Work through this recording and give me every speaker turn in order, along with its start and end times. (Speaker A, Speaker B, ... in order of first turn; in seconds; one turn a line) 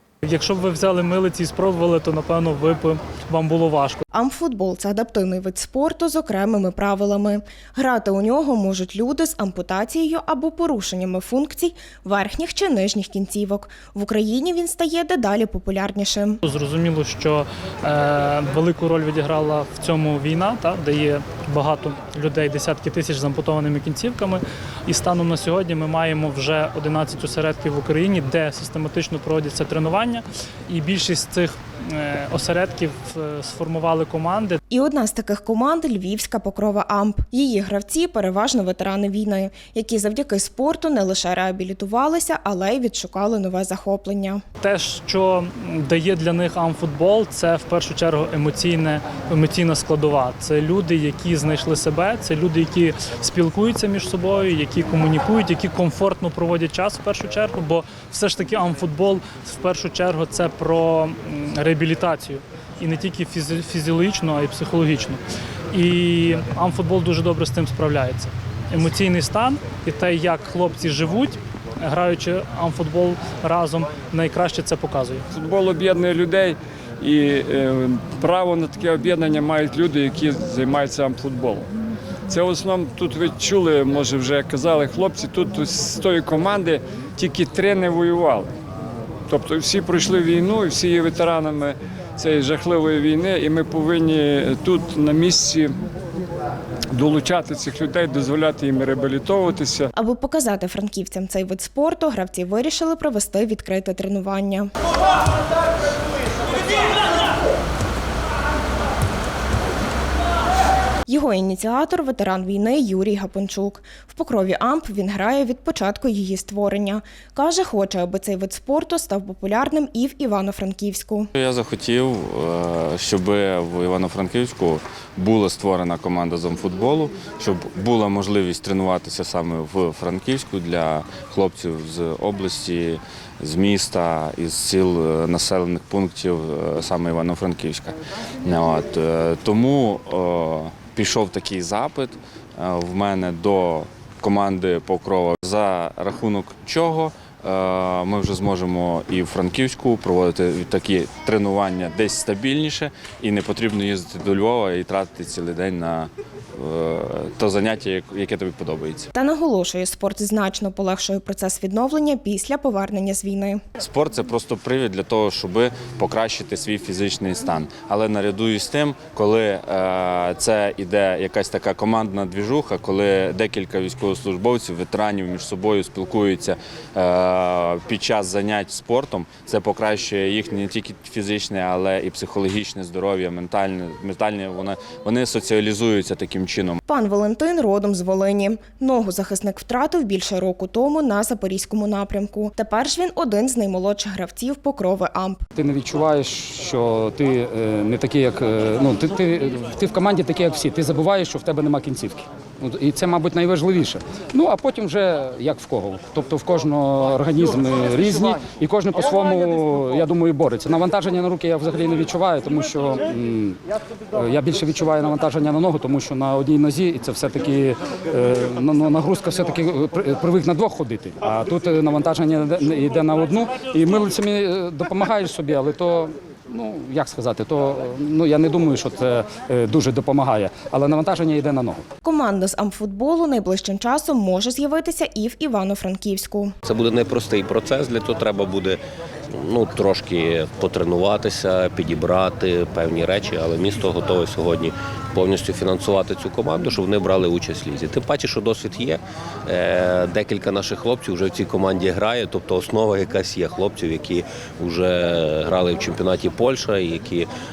Speaker A: 0.2-4.0
Speaker B: 4.1-16.4
Speaker A: 16.4-34.6
Speaker B: 34.7-44.4
Speaker A: 44.6-65.2
Speaker A: 65.7-75.2
Speaker C: 75.3-81.7
Speaker C: 82.3-88.5
Speaker C: 89.3-95.7
Speaker C: 96.9-99.9
Speaker B: 100.0-104.7
Speaker B: 111.1-121.3
Speaker D: 121.3-159.1
Speaker B: 159.1-163.6
Speaker D: 163.8-186.8
Speaker B: 186.9-195.4
Speaker E: 195.6-213.6
Speaker E: 214.1-231.8
Speaker B: 232.0-236.5
Speaker F: 236.7-238.8
Speaker F: 239.4-257.3